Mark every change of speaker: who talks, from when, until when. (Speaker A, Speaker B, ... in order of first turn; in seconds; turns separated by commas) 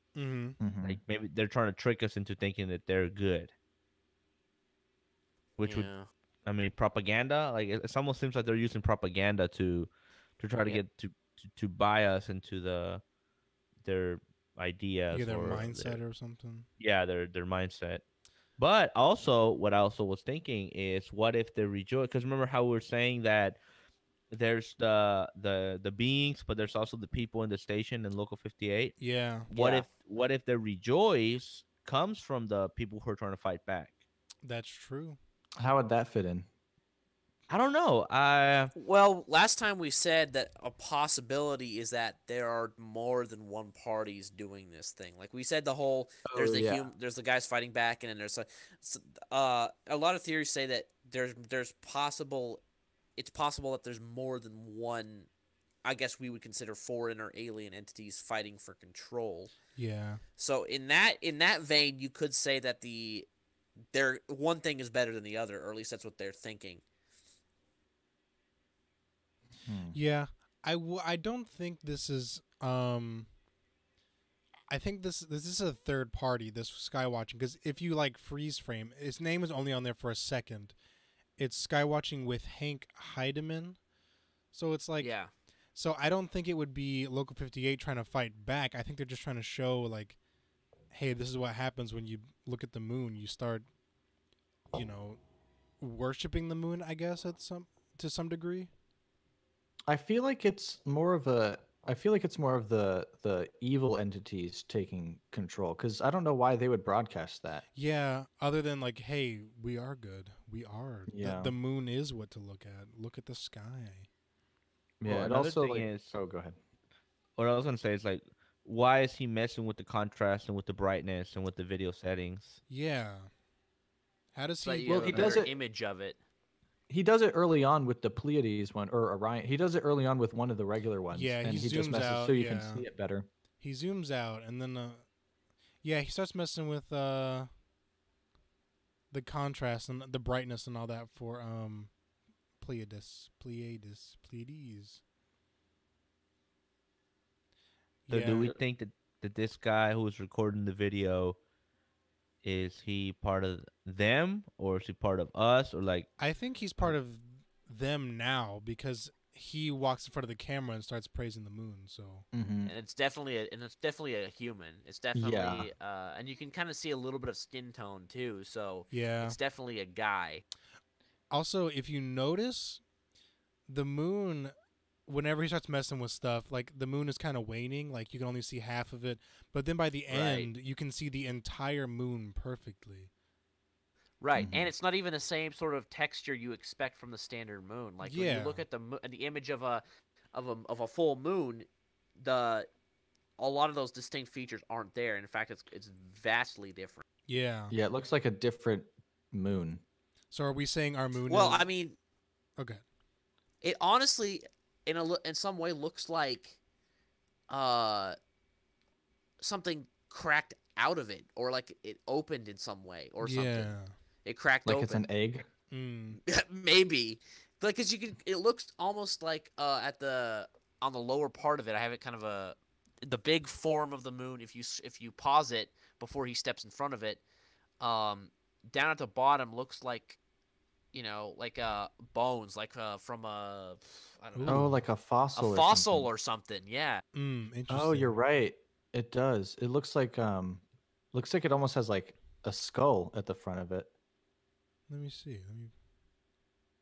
Speaker A: 0.1-0.6, Speaker B: 0.6-1.0, Speaker C: 0.8-3.5, Speaker C: 5.6-5.9, Speaker D: 5.7-6.1, Speaker C: 6.4-13.0, Speaker C: 13.8-16.0, Speaker A: 15.1-16.7, Speaker C: 16.8-18.0, Speaker C: 18.6-23.6, Speaker C: 24.3-28.9, Speaker A: 29.0-29.5, Speaker C: 29.5-34.0, Speaker D: 29.5-29.9, Speaker A: 34.4-35.2, Speaker B: 35.6-36.5, Speaker C: 37.5-38.7, Speaker D: 38.8-52.6, Speaker B: 46.3-46.9, Speaker D: 53.2-55.3, Speaker D: 55.8-59.5, Speaker A: 59.7-60.2, Speaker D: 60.4-63.3, Speaker D: 63.9-66.8, Speaker B: 69.6-70.0, Speaker A: 69.9-73.3, Speaker A: 74.7-80.7, Speaker A: 81.4-83.8, Speaker A: 84.5-85.1, Speaker D: 85.0-85.3, Speaker A: 85.7-90.2, Speaker A: 90.9-93.7, Speaker A: 94.7-95.2, Speaker A: 95.8-98.7, Speaker B: 99.9-107.6, Speaker A: 107.7-114.1, Speaker B: 111.1-111.5, Speaker B: 115.0-116.6, Speaker C: 115.0-116.2, Speaker C: 117.3-122.6, Speaker A: 122.7-123.3, Speaker A: 124.3-125.4, Speaker D: 124.6-126.2, Speaker B: 124.8-125.5, Speaker B: 126.9-133.3, Speaker A: 131.1-132.8, Speaker A: 133.6-135.0, Speaker A: 135.8-137.5, Speaker A: 139.1-141.9, Speaker A: 142.6-145.0, Speaker C: 148.1-151.4, Speaker A: 148.1-148.5, Speaker C: 152.4-156.1, Speaker A: 156.2-162.2, Speaker B: 162.3-162.7, Speaker D: 162.7-170.4, Speaker B: 165.1-165.7, Speaker A: 168.9-169.4, Speaker A: 171.3-172.8, Speaker A: 173.7-174.5, Speaker A: 175.1-183.1, Speaker D: 180.1-180.5, Speaker D: 184.2-192.7, Speaker B: 184.3-184.7, Speaker A: 188.0-188.6, Speaker D: 193.4-197.0, Speaker A: 197.3-197.7, Speaker B: 197.7-199.8, Speaker A: 200.3-201.7, Speaker D: 201.3-201.9, Speaker D: 203.6-206.6, Speaker D: 207.5-208.2, Speaker D: 209.4-213.7, Speaker A: 213.2-213.9, Speaker D: 214.2-215.0, Speaker B: 214.6-215.4, Speaker A: 215.7-216.2, Speaker D: 216.2-227.2, Speaker D: 227.8-230.2, Speaker D: 230.9-234.7, Speaker A: 234.3-234.7, Speaker B: 234.5-236.1, Speaker D: 235.3-237.0, Speaker A: 237.1-238.1, Speaker B: 237.7-243.9, Speaker A: 244.9-245.7